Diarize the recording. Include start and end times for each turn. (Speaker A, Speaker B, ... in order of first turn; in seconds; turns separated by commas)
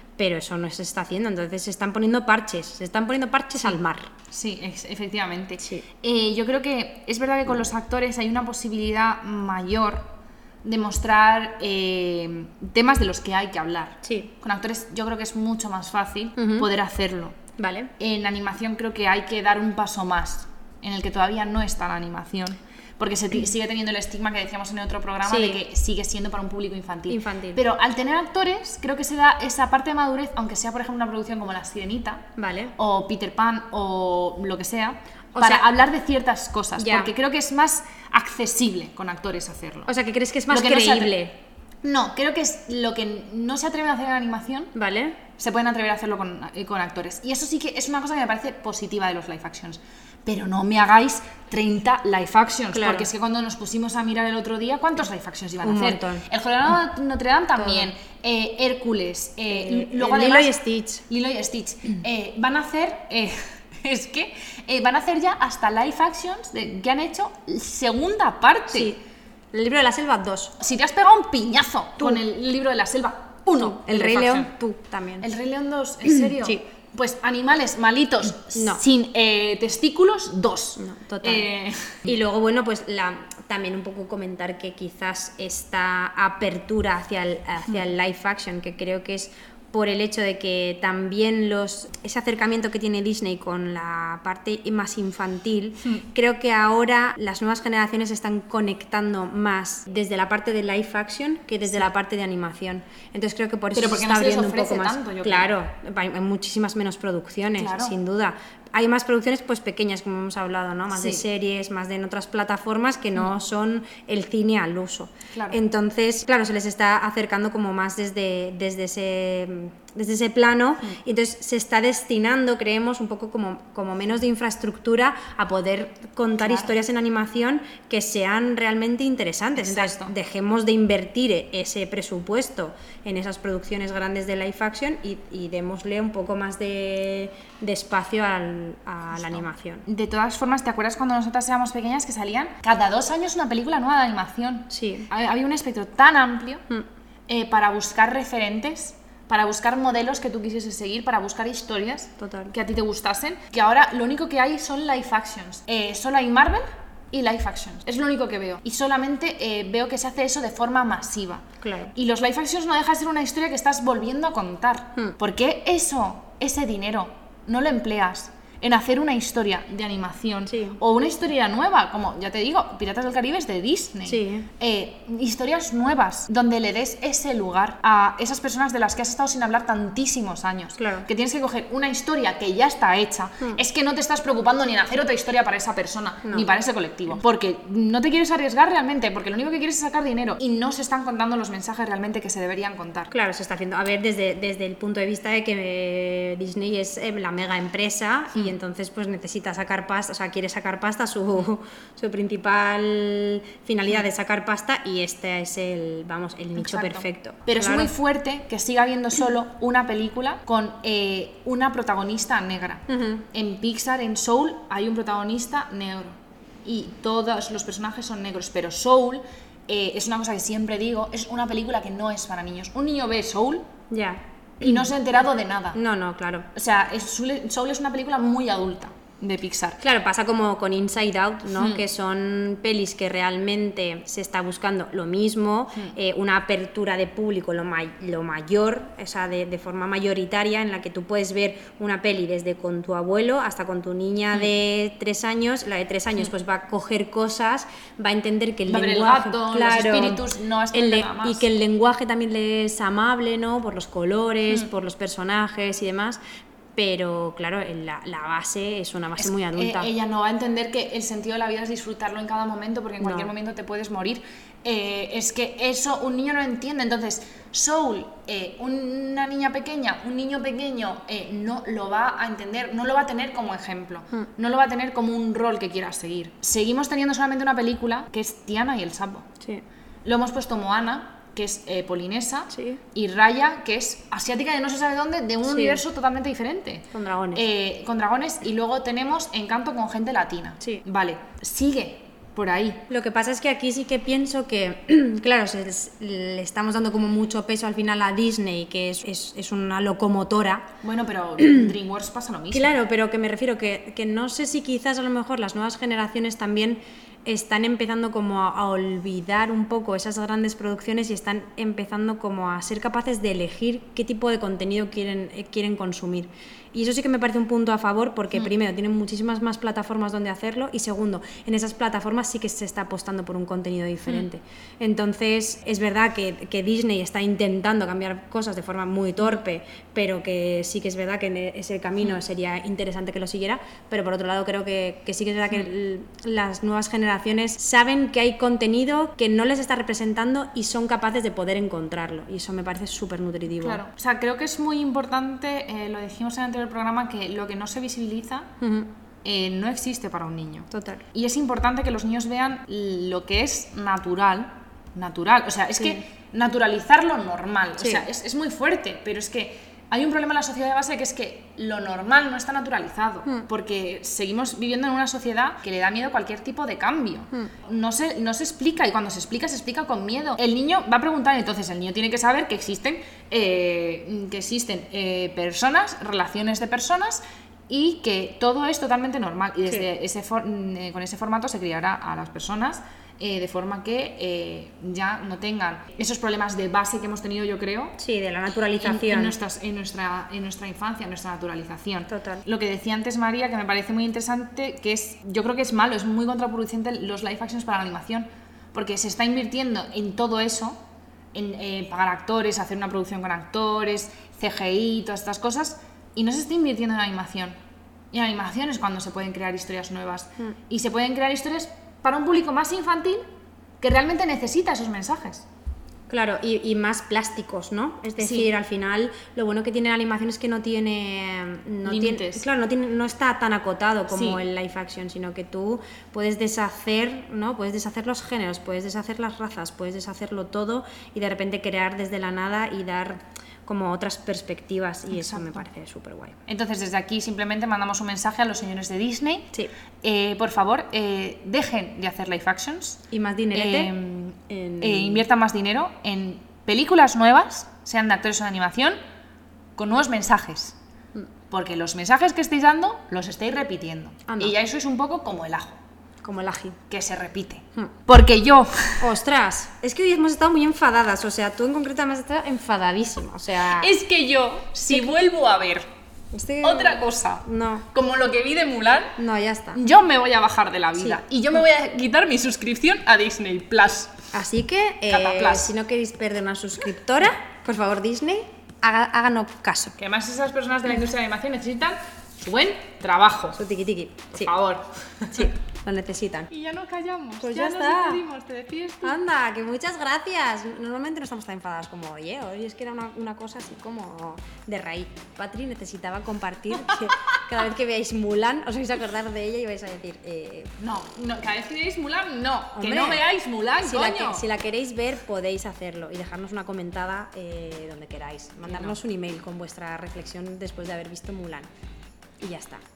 Speaker A: 0.2-4.1, Speaker B: 4.3-10.1, Speaker A: 5.6-5.9, Speaker B: 10.6-17.4, Speaker A: 14.0-14.3, Speaker A: 16.4-16.7, Speaker A: 17.6-17.9, Speaker B: 18.0-39.9, Speaker A: 25.3-25.6, Speaker A: 27.1-27.6, Speaker A: 32.4-32.7, Speaker A: 35.4-35.7, Speaker A: 36.8-37.1, Speaker A: 39.9-41.4, Speaker B: 40.5-41.2, Speaker B: 41.8-44.7, Speaker A: 44.8-45.2, Speaker B: 45.4-60.5, Speaker A: 52.7-53.1, Speaker A: 55.6-56.2, Speaker A: 57.6-57.9, Speaker A: 59.5-61.0, Speaker B: 61.1-68.9, Speaker A: 68.7-69.0, Speaker A: 69.5-70.6, Speaker B: 70.6-74.5, Speaker A: 73.6-75.3, Speaker B: 75.2-82.1, Speaker A: 76.0-76.6, Speaker A: 78.5-78.8, Speaker A: 80.8-81.5, Speaker A: 82.0-139.8, Speaker B: 103.7-105.5, Speaker B: 107.6-108.0, Speaker B: 111.0-111.2, Speaker B: 115.3-115.6, Speaker B: 126.4-126.8, Speaker B: 129.6-130.1, Speaker B: 139.3-146.6, Speaker A: 144.7-145.1, Speaker B: 147.3-193.1, Speaker A: 152.2-152.5, Speaker A: 161.6-161.9, Speaker A: 170.5-170.8, Speaker A: 174.1-174.5, Speaker A: 180.8-181.1, Speaker A: 193.1-207.9, Speaker B: 206.6-223.7, Speaker A: 212.9-213.3, Speaker A: 223.9-224.9, Speaker B: 224.6-225.8, Speaker A: 225.8-226.5, Speaker B: 226.6-229.8, Speaker A: 229.8-256.2, Speaker B: 231.5-231.8, Speaker B: 248.7-251.4, Speaker A: 256.8-259.9, Speaker B: 259.2-279.3, Speaker A: 263.0-263.3, Speaker B: 280.1-292.8, Speaker A: 282.5-282.8, Speaker A: 285.5-285.8, Speaker A: 286.9-287.4, Speaker A: 292.9-300.7, Speaker B: 300.8-302.7, Speaker A: 301.4-301.7, Speaker A: 302.5-343.8, Speaker B: 343.6-348.5, Speaker A: 348.6-348.9, Speaker B: 349.2-388.0, Speaker A: 350.7-351.1, Speaker A: 357.8-358.1, Speaker A: 388.0-389.4, Speaker B: 388.8-400.8, Speaker A: 392.1-392.4, Speaker B: 401.3-407.6, Speaker B: 408.1-413.2, Speaker B: 413.8-415.5, Speaker A: 416.1-436.4, Speaker B: 418.2-418.5, Speaker B: 421.9-422.5, Speaker B: 424.1-424.4, Speaker B: 435.1-435.6, Speaker B: 436.5-439.5, Speaker B: 440.0-449.0, Speaker A: 443.1-443.9, Speaker A: 444.5-445.3, Speaker B: 449.8-450.8, Speaker B: 451.5-455.8, Speaker A: 454.3-454.5, Speaker A: 456.2-456.8, Speaker B: 456.9-459.1, Speaker A: 459.0-463.9, Speaker B: 463.7-465.9, Speaker A: 466.3-467.9, Speaker B: 466.6-469.2, Speaker A: 469.2-469.8, Speaker B: 469.8-474.2, Speaker A: 474.3-479.9, Speaker B: 475.1-475.7, Speaker B: 480.0-483.6, Speaker A: 483.5-484.5, Speaker B: 484.3-485.5, Speaker A: 485.3-486.5, Speaker B: 486.5-489.2, Speaker A: 487.4-488.2, Speaker A: 489.0-500.7, Speaker B: 500.8-504.4, Speaker A: 502.8-503.2, Speaker A: 503.8-511.7, Speaker B: 508.7-509.0, Speaker A: 512.4-512.8